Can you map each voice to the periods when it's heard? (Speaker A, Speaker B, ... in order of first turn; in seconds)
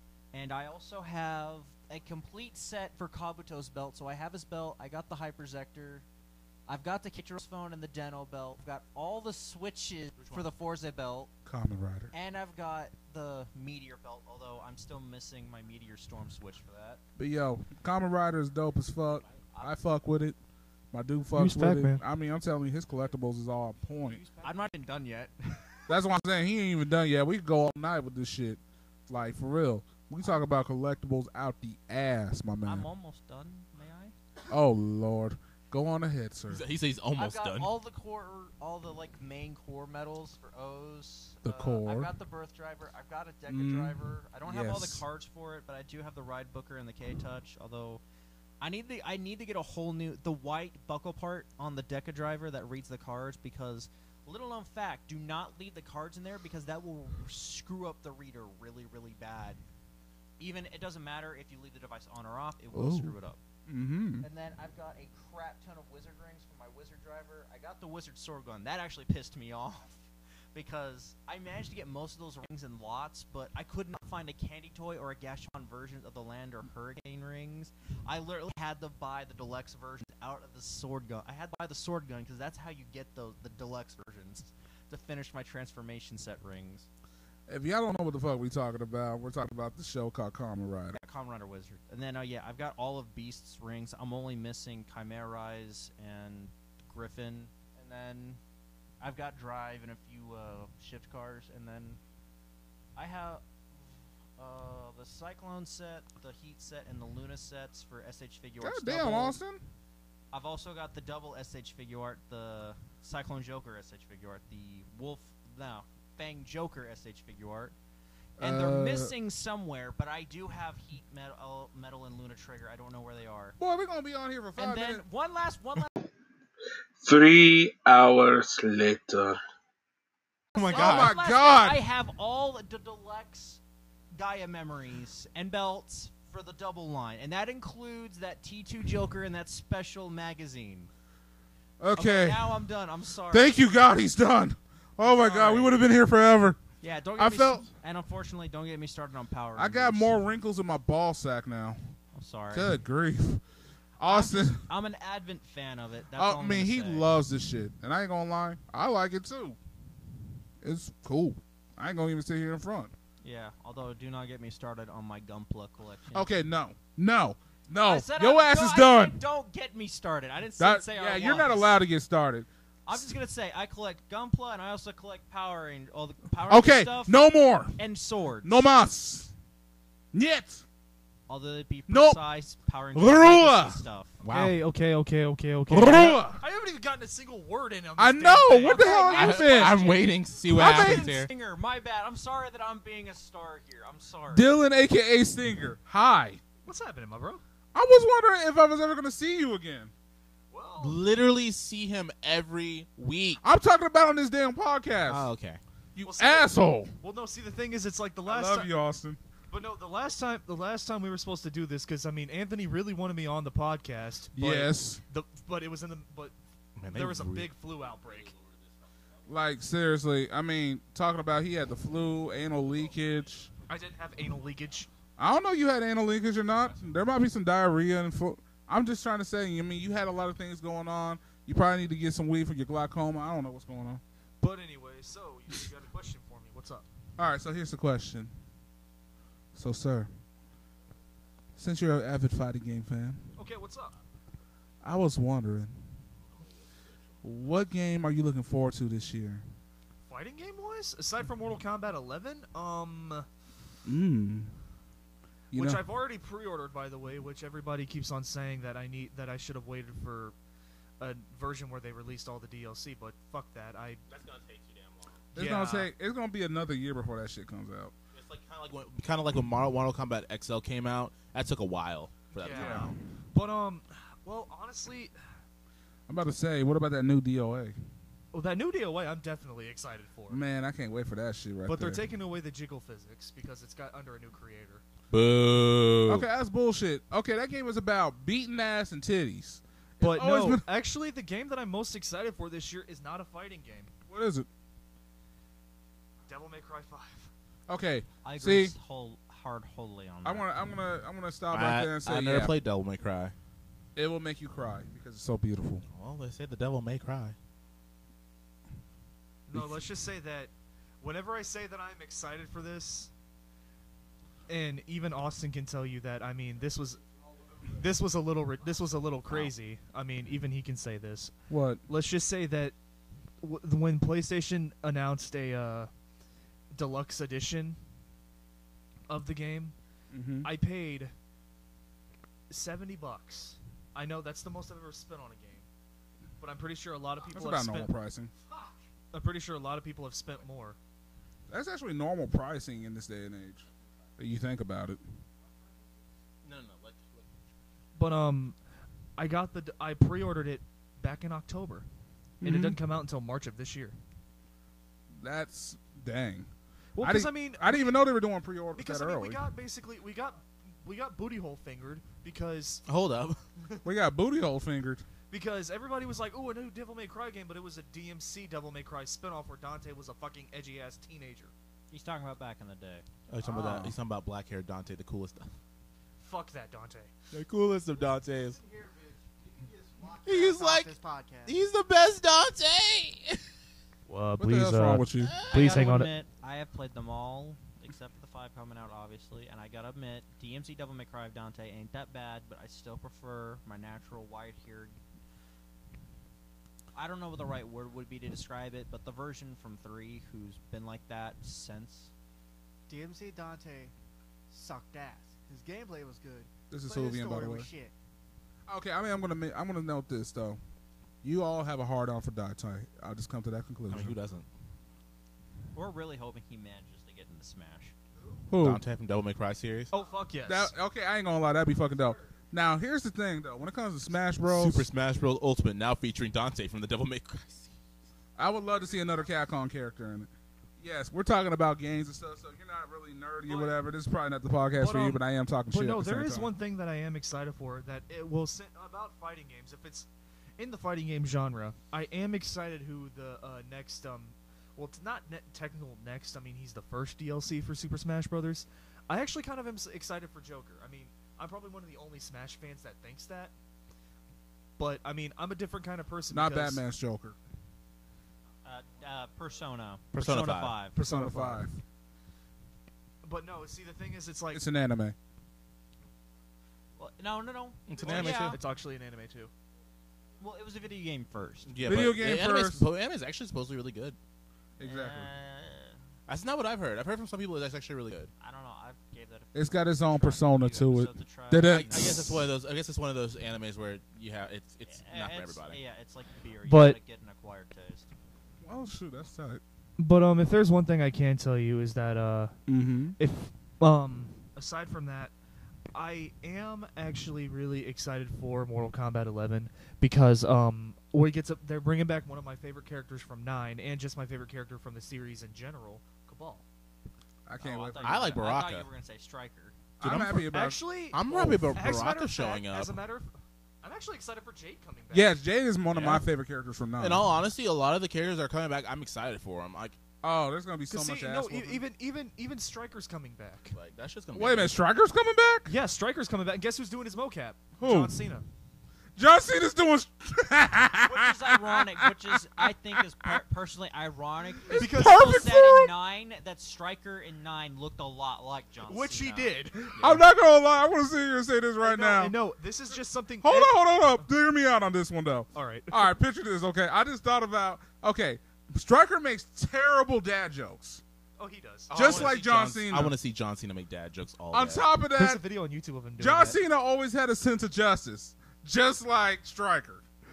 Speaker A: 0.3-6.0, 6.7-11.3, 12.1-17.0, 24.4-25.9, 32.6-34.1, 37.1-48.0, 48.6-59.6, 60.4-63.4, 64.2-86.9, 90.9-98.4, 99.0-102.0, 103.0-109.4, 110.3-117.8, 118.4-123.6, 124.6-125.9, 130.5-133.6, 134.1-140.9, 141.9-143.6, 145.0-145.8, 146.8-150.2, 152.1-152.8, 154.0-157.1, 163.2-166.3, 167.8-171.8, 172.9-178.7, 181.3-184.2, 188.6-194.5, 298.2-300.5, 371.9-373.0, 385.5-395.0, 396.9-402.1, 415.7-417.9, 458.6-460.9, 467.0-468.6, 470.4-471.7, 474.8-476.0, 478.4-482.4, 484.9-488.1, 507.6-509.8, 531.0-540.2
Speaker B: 10.2-10.4, 36.5-37.7, 130.5-131.1, 184.2-184.6, 189.0-191.3, 200.8-203.4, 205.1-205.6, 216.8-218.7, 264.1-265.3, 268.1-272.9, 285.1-286.2, 301.5-303.3, 305.9-307.4, 346.4-347.3, 362.9-363.4, 373.3-375.5, 377.3-378.6, 380.2-383.4, 385.2-385.8, 413.9-414.5, 418.6-419.9, 424.4-427.7, 460.1-460.8, 467.9-468.6, 471.7-474.2, 476.3-478.3, 481.6-485.8, 508.0-508.9, 510.0-510.5, 511.1-513.0, 515.9-516.2, 517.0-520.0, 523.7-524.8, 551.9-554.9
Speaker C: 11.4-12.1, 17.2-20.4, 20.9-24.2, 25.9-32.9, 34.5-36.6, 41.4-42.1, 43.5-45.0, 62.7-63.1, 63.7-64.3, 87.5-91.0, 108.6-109.7, 118.4-119.1, 123.6-125.0, 130.7-131.8, 141.8-142.5, 143.3-146.6, 147.2-147.7, 149.6-151.8, 152.5-153.4, 154.0-154.6, 156.2-159.6, 160.6-162.9, 166.1-169.2, 170.6-173.0, 176.5-177.8, 178.4-179.3, 180.1-180.6, 181.9-182.2, 182.9-183.8, 185.7-186.4, 188.0-189.8, 190.5-191.1, 194.3-196.4, 197.7-199.9, 203.4-205.3, 206.0-206.9, 208.2-209.2, 214.3-215.0, 219.3-223.5, 225.2-234.0, 237.2-238.3, 239.5-240.1, 241.6-243.3, 244.8-245.9, 247.2-249.4, 253.8-254.5, 255.5-255.8, 265.4-267.9, 272.4-272.9, 276.1-277.8, 280.3-282.0, 286.1-290.6, 294.1-294.5, 297.7-298.8, 300.2-302.5, 304.0-305.8, 321.5-321.8, 330.1-330.5, 337.3-338.3, 341.5-343.6, 344.2-345.0, 352.4-352.8, 355.1-356.5, 357.0-359.4, 363.8-365.0, 373.4-373.9, 384.4-385.4, 406.7-407.7, 408.7-410.6, 411.2-414.2, 418.5-418.8, 420.4-424.9, 428.4-436.5, 456.3-457.4, 460.9-461.7, 464.5-465.1, 471.9-472.9, 474.8-475.3, 479.5-482.5, 488.6-489.6, 492.7-493.2, 507.4-508.3, 510.0-511.8, 515.1-517.3, 520.2-521.8, 524.4-525.7, 527.8-528.2, 529.1-533.4, 534.7-535.9, 540.0-542.4, 543.4-551.0, 551.9-553.1, 554.5-555.4, 556.2-560.0
Speaker D: 21.4-22.0, 184.3-189.4, 196.6-197.4, 200.5-201.0, 206.0-208.7, 209.5-216.3, 216.9-218.3, 223.7-224.9, 234.4-236.8, 243.4-244.0, 250.1-253.2, 255.5-260.4, 261.0-264.0, 265.4-265.9, 272.4-275.1, 278.3-280.4, 281.7-284.8, 290.0-293.9, 296.3-297.3, 309.5-313.1, 314.5-317.0, 317.7-321.3, 321.9-322.8, 323.4-325.9, 326.7-327.8, 329.1-329.8, 330.4-331.1, 332.5-335.7, 336.4-337.9, 339.1-340.8, 348.0-348.6, 349.2-351.9, 352.4-353.9, 356.9-357.9, 358.8-362.8, 365.3-371.5, 376.2-377.1, 384.1-386.1, 419.9-420.7, 433.5-433.8, 434.8-453.5, 454.8-456.8, 461.0-461.8, 463.2-464.6, 468.0-469.5, 486.6-487.0, 490.0-492.5, 493.2-495.3, 495.9-506.6, 510.5-511.2, 511.7-515.3, 520.9-523.8, 525.7-528.4, 534.7-535.4, 538.9-540.1, 541.8-543.8, 545.5-546.1, 551.4-552.3, 555.1-556.6
Speaker E: 127.0-129.4
Speaker F: 378.4-381.6, 402.9-403.9, 404.5-407.9